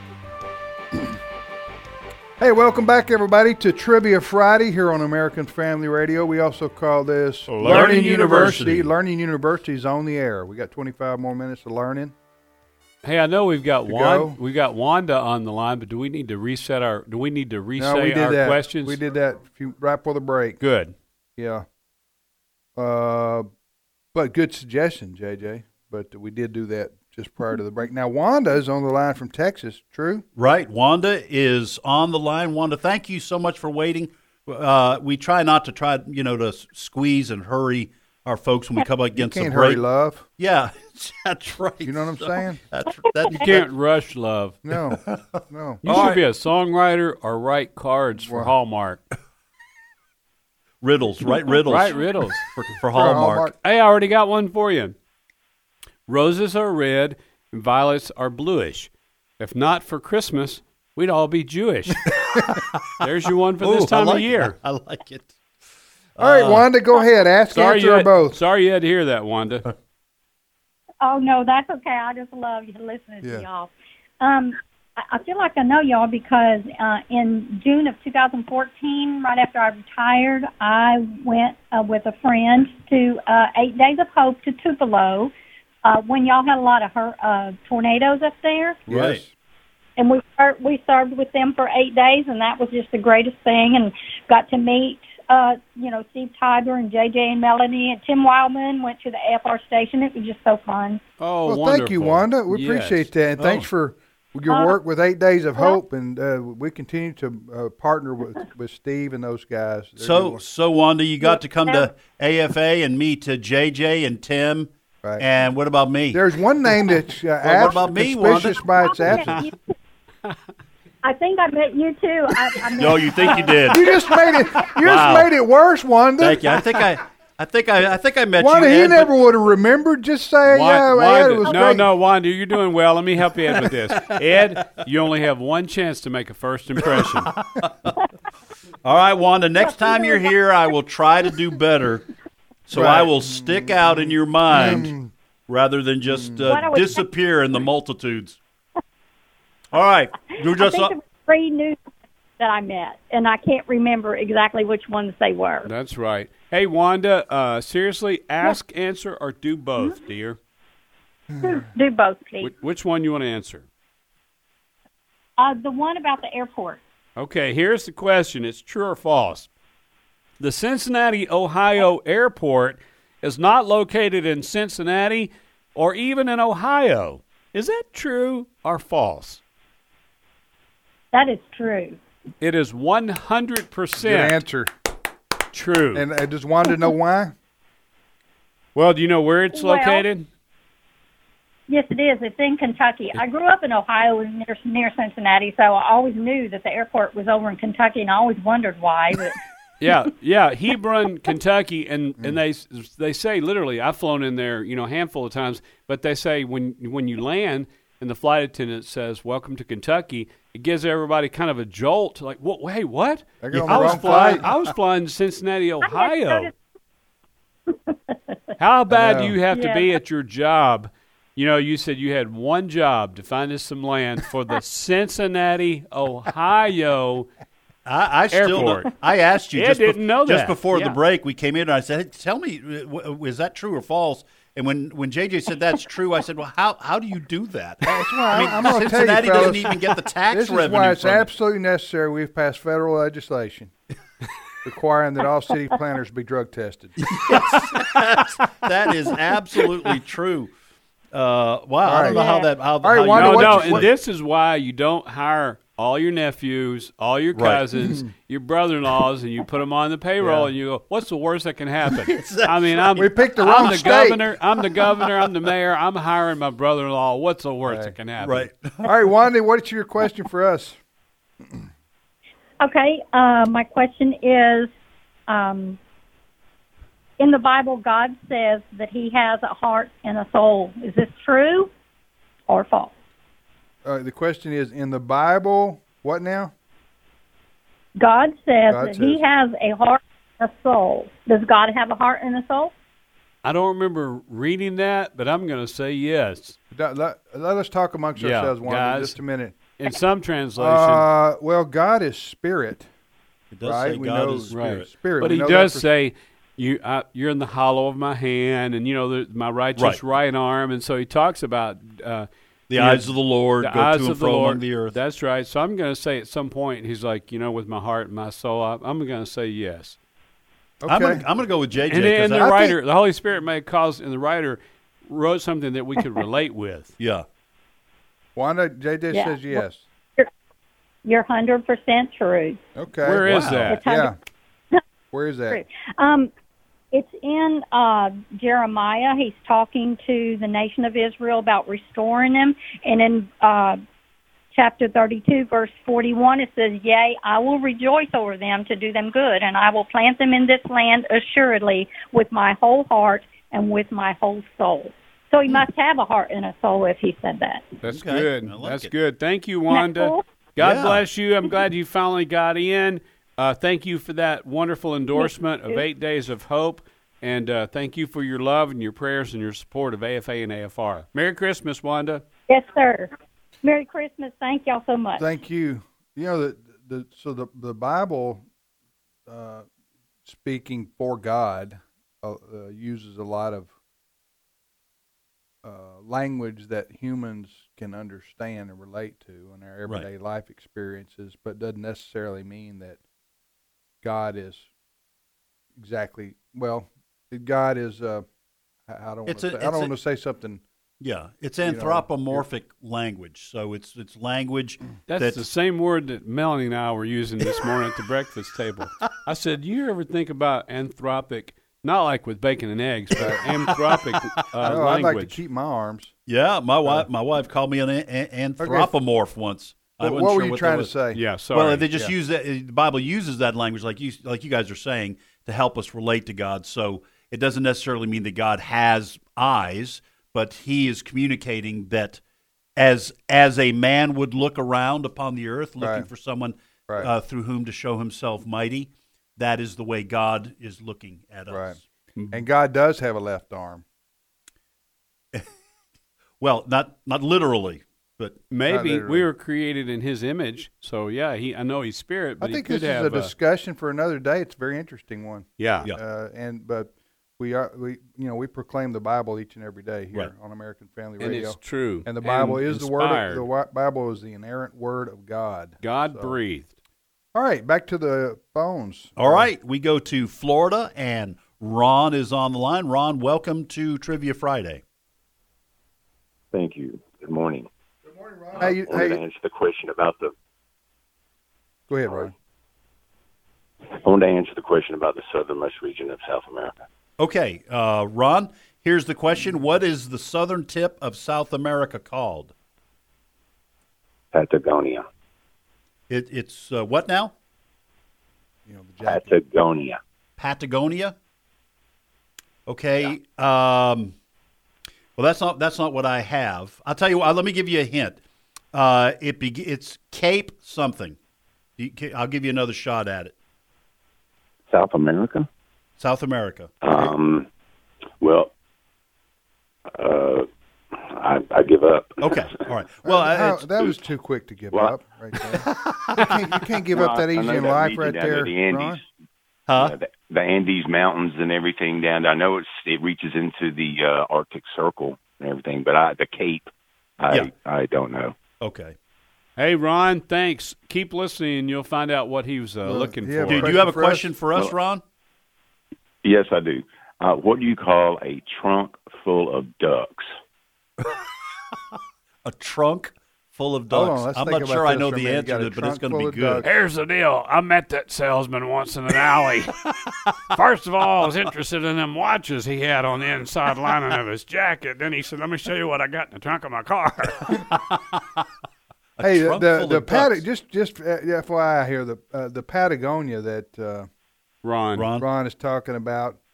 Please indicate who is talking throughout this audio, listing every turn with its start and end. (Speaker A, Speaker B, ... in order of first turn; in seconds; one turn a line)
Speaker A: 2.4-12.1
Speaker B: 7.5-8.4
Speaker C: 7.6-8.9
Speaker B: 13.0-19.0
Speaker A: 13.9-14.4
Speaker A: 17.8-20.6
Speaker B: 20.6-20.9
Speaker A: 21.4-21.6
Speaker A: 22.8-23.5
Speaker A: 24.1-30.2
Speaker C: 30.4-39.8
Speaker A: 39.1-40.2
Speaker C: 40.4-43.7
Speaker A: 41.8-42.6
Speaker B: 43.3-44.6
Speaker A: 44.6-46.1
Speaker C: 44.9-46.2
Speaker B: 45.8-49.0
Speaker A: 48.2-48.5
Speaker C: 50.8-53.5
Speaker B: 51.6-52.5
Speaker A: 52.9-53.5
Speaker B: 53.6-54.9
Speaker B: 56.1-62.0
Speaker C: 62.1-63.0
Speaker B: 63.0-64.6
Speaker C: 63.6-65.3
Speaker C: 66.2-66.7
Speaker A: 66.2-68.4
Speaker B: 67.5-69.6
Speaker D: 71.0-85.3
Speaker A: 73.2-73.5
Speaker D: 85.8-88.8
Speaker C: 88.9-89.2
Speaker A: 88.9-89.3
Speaker D: 90.0-101.0
Speaker B: 101.2-103.1
Speaker A: 101.5-110.4
Speaker C: 103.4-103.7
Speaker D: 104.5-104.8
Speaker C: 110.0-116.2
Speaker D: 111.2-111.9
Speaker A: 116.1-119.4
Speaker C: 117.4-119.5
Speaker D: 118.8-119.7
Speaker D: 121.0-123.8
Speaker C: 122.7-124.0
Speaker A: 123.7-126.6
Speaker C: 124.7-125.3
Speaker C: 126.2-129.1
Speaker A: 128.4-131.9
Speaker B: 130.4-137.3
Speaker C: 134.1-134.7
Speaker C: 136.8-137.9
Speaker C: 138.8-142.1
Speaker D: 139.6-140.3
Speaker C: 142.7-144.9
Speaker A: 142.7-145.1
Speaker C: 145.5-148.4
Speaker A: 146.1-146.5
Speaker D: 146.5-147.1
Speaker C: 149.7-150.9
Speaker D: 150.6-151.8
Speaker D: 152.4-155.7
Speaker B: 155.6-160.4
Speaker D: 161.4-162.5
Speaker B: 162.4-163.6
Speaker D: 165.4-166.8
Speaker B: 167.2-169.5
Speaker B: 170.4-179.4
Speaker D: 181.1-182.0
Speaker B: 182.4-184.4
Speaker A: 184.0-184.7
Speaker B: 185.5-186.1
Speaker A: 185.9-187.3
Speaker B: 188.7-190.2
Speaker D: 189.5-190.0
Speaker D: 191.7-199.4
Speaker B: 199.8-216.5
Speaker A: 213.4-214.4
Speaker C: 213.5-214.6
Speaker D: 215.8-216.5
Speaker D: 217.9-218.1
Speaker B: 218.6-227.3
Speaker A: 218.9-219.4
Speaker D: 219.5-219.9
Speaker C: 227.8-241.3
Speaker B: 228.3-228.9
Speaker B: 229.5-231.0
Speaker A: 237.8-243.7
Speaker A: 244.6-247.0
Speaker C: 247.0-250.5
Speaker C: 251.1-253.9
Speaker A: 251.8-253.9
Speaker D: 252.1-252.4
Speaker B: 253.1-268.5
Speaker C: 257.3-257.6
Speaker A: 260.2-260.5
Speaker C: 261.9-263.1
Speaker A: 262.9-264.2
Speaker C: 263.6-263.9
Speaker C: 264.9-265.1
Speaker A: 267.6-267.9
Speaker C: 268.2-268.9
Speaker A: 268.8-270.8
Speaker D: 272.6-274.7
Speaker D: 275.3-275.8
Speaker D: 277.2-281.7
Speaker D: 282.5-282.9
Speaker A: 283.8-286.5
Speaker D: 288.0-292.7
Speaker A: 288.7-289.2
Speaker B: 293.4-296.6
Speaker A: 296.7-299.5
Speaker B: 298.2-299.1
Speaker B: 299.8-301.1
Speaker A: 300.6-302.9
Speaker C: 303.5-304.9
Speaker A: 303.6-305.9
Speaker B: 304.5-313.1
Speaker C: 312.7-315.0
Speaker B: 313.6-320.0
Speaker A: 320.8-321.2
Speaker C: 320.8-322.7
Speaker B: 321.9-326.9
Speaker C: 327.0-327.2
Speaker A: 328.4-329.8
Speaker D: 329.1-329.6
Speaker D: 331.0-332.6
Speaker A: 332.8-334.1
Speaker B: 333.0-333.8
Speaker C: 333.3-333.7
Speaker D: 333.7-334.1
Speaker A: 335.1-335.6
Speaker D: 335.5-336.3
Speaker D: 336.9-343.8
Speaker D: 344.5-357.6
Speaker B: 357.8-372.2
Speaker C: 357.9-358.9
Speaker D: 359.7-360.2
Speaker C: 360.6-361.0
Speaker D: 365.1-365.8
Speaker D: 372.5-375.2
Speaker A: 375.2-378.4
Speaker A: 379.3-379.6
Speaker A: 380.2-383.7
Speaker A: 385.6-393.0
Speaker A: 394.0-394.7
Speaker A: 395.8-398.2
Speaker A: 398.9-400.6
Speaker C: 399.2-399.9
Speaker C: 401.0-405.4
Speaker A: 401.6-402.4
Speaker B: 405.1-415.4
Speaker A: 413.1-413.5
Speaker C: 413.4-413.7
Speaker A: 414.6-416.1
Speaker C: 416.3-420.9
Speaker A: 418.6-418.9
Speaker A: 420.0-421.2
Speaker B: 421.1-421.9
Speaker C: 421.5-432.2
Speaker C: 432.8-441.8
Speaker A: 435.8-436.1
Speaker A: 441.5-441.8
Speaker A: 442.3-443.8
Speaker C: 446.4-448.4
Speaker B: 448.5-453.3
Speaker A: 448.6-449.3
Speaker A: 452.4-466.4
Speaker B: 455.6-455.9
Speaker B: 461.2-463.5
Speaker B: 465.8-466.7
Speaker A: 467.3-469.5
Speaker C: 469.2-474.8
Speaker E: 476.5-477.7
Speaker A: 478.0-479.2
Speaker E: 478.5-480.3
Speaker A: 481.9-482.3
Speaker E: 483.9-486.7
Speaker C: 487.2-492.5
Speaker E: 494.3-495.1
Speaker C: 496.1-497.3
Speaker A: 498.7-499.4
Speaker E: 499.0-500.0
Speaker C: 500.4-501.1
Speaker C: 502.6-504.1
Speaker C: 505.2-508.2
Speaker C: 508.7-511.2
Speaker C: 511.8-513.3
Speaker E: 514.7-515.5
Speaker C: 516.0-517.1
Speaker E: 516.8-517.5
Speaker E: 518.2-518.5
Speaker E: 519.9-522.7
Speaker C: 522.2-523.7
Speaker A: 523.0-525.6
Speaker C: 525.6-526.3
Speaker A: 526.1-529.0
Speaker E: 526.9-529.0
Speaker C: 529.7-529.9
Speaker E: 529.7-538.4
Speaker C: 538.6-539.0
Speaker B: 539.6-543.7
Speaker A: 542.8-544.3
Speaker C: 543.5-545.0
Speaker E: 546.2-550.3
Speaker C: 552.4-556.6
Speaker A: 553.9-556.6
Speaker B: 556.6-559.8
Speaker B: 560.5-567.6
Speaker C: 567.5-568.2
Speaker C: 569.2-570.4
Speaker A: 569.2-574.1
Speaker B: 574.6-575.1
Speaker C: 574.9-575.2
Speaker A: 575.1-576.4